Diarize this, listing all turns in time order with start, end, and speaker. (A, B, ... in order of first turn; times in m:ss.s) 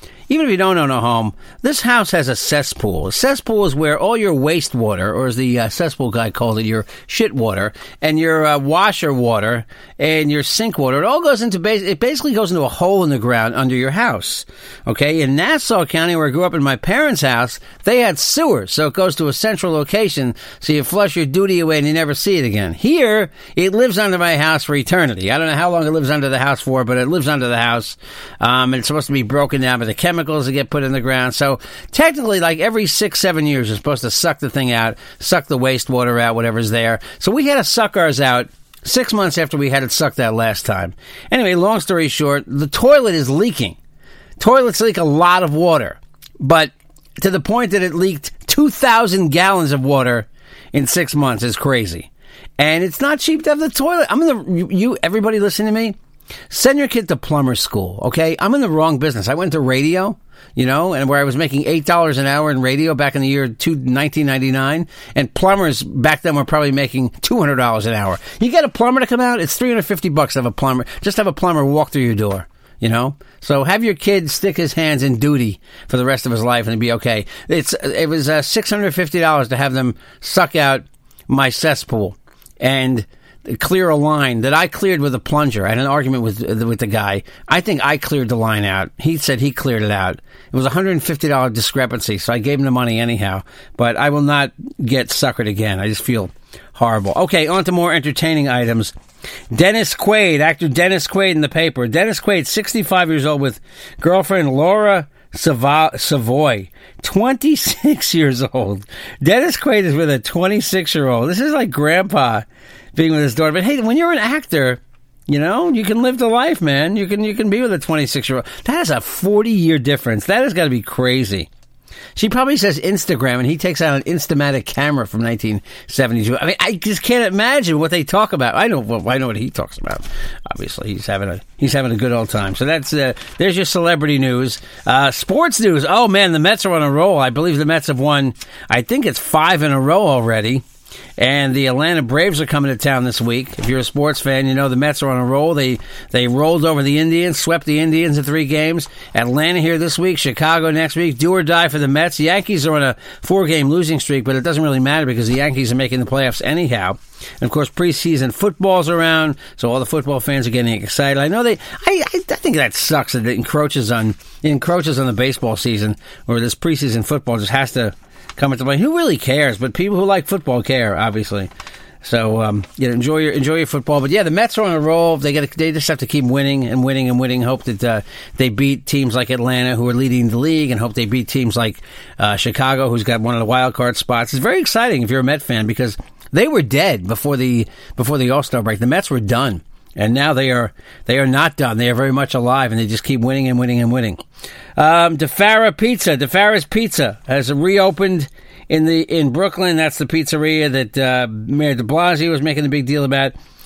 0:00.3-0:43.8 A
0:44.4-0:56.0 A
0:56.5-1:38.9 A
1:39.5-2:01.5 A
2:02.2-2:20.6 A
2:21.2-2:51.5 A
2:52.0-3:14.2 A
3:14.8-3:23.4 A